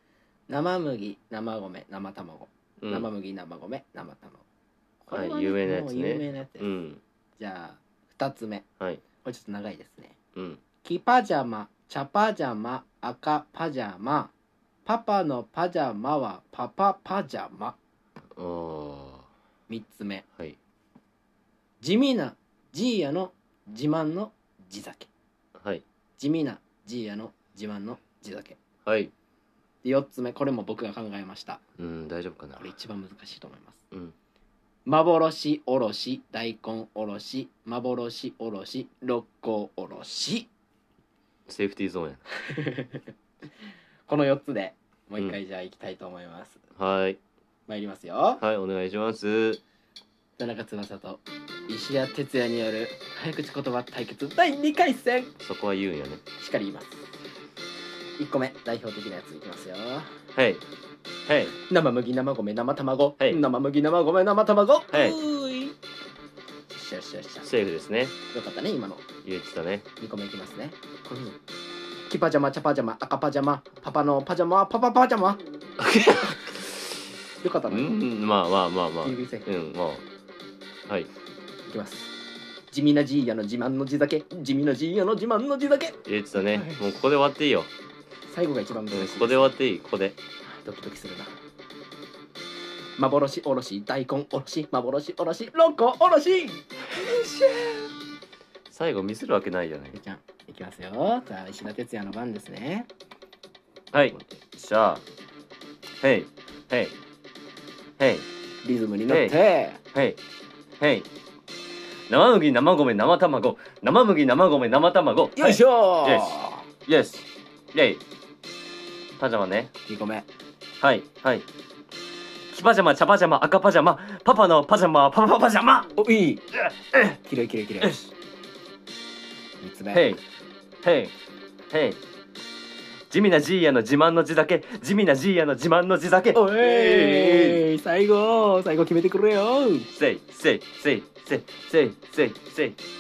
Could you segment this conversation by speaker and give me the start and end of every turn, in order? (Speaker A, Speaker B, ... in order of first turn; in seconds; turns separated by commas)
Speaker A: 0.5-4.4, Speaker B: 2.8-3.1, Speaker A: 5.0-6.7, Speaker B: 5.1-7.0, Speaker A: 7.4-8.7, Speaker A: 9.2-10.2, Speaker B: 10.3-10.6, Speaker A: 10.8-14.3, Speaker A: 14.9-17.8, Speaker B: 18.4-19.3, Speaker A: 19.7-20.2, Speaker A: 21.8-25.1, Speaker B: 25.6-25.8, Speaker A: 26.2-28.6, Speaker B: 28.9-29.1, Speaker A: 29.8-31.6, Speaker B: 31.8-32.7, Speaker A: 32.6-33.8, Speaker A: 34.9-40.5, Speaker B: 41.5-42.2, Speaker A: 42.4-43.1, Speaker A: 44.1-46.6, Speaker B: 46.8-47.2, Speaker A: 47.7-48.4, Speaker B: 48.4-49.6, Speaker A: 50.4-55.3, Speaker B: 55.4-56.2, Speaker A: 56.4-57.0, Speaker A: 58.2-60.2, Speaker B: 60.4-60.6, Speaker B: 61.3-61.5, Speaker A: 61.7-65.8, Speaker B: 64.9-65.2, Speaker A: 66.7-67.5, Speaker B: 67.4-68.2, Speaker A: 68.3-69.0, Speaker B: 69.2-69.9, Speaker A: 70.0-71.4, Speaker A: 72.1-75.4, Speaker B: 75.8-76.8, Speaker A: 77.4-78.0, Speaker B: 77.7-80.0, Speaker A: 79.0-79.5, Speaker A: 81.7-82.1, Speaker A: 82.7-86.8, Speaker B: 86.1-87.7, Speaker A: 88.3-89.5, Speaker B: 88.9-90.2, Speaker A: 90.5-91.3, Speaker A: 93.0-97.9, Speaker B: 98.7-100.0, Speaker A: 99.9-102.9, Speaker B: 103.9-105.0, Speaker B: 106.0-107.0, Speaker B: 108.0-108.3, Speaker A: 108.6-109.8, Speaker B: 109.1-109.4, Speaker B: 109.9-110.2, Speaker B: 110.8-111.1, Speaker B: 112.1-116.3, Speaker A: 115.4-116.7, Speaker B: 116.9-118.0, Speaker B: 119.2-119.7, Speaker A: 119.9-120.3, Speaker B: 120.8-121.5, Speaker B: 122.5-125.9, Speaker A: 126.0-126.5, Speaker A: 127.1-128.0, Speaker B: 127.8-128.1, Speaker A: 129.6-130.1, Speaker B: 129.9-130.2, Speaker B: 130.8-131.1, Speaker B: 131.7-132.0, Speaker B: 133.1-137.6, Speaker A: 136.3-139.9, Speaker B: 139.9-142.8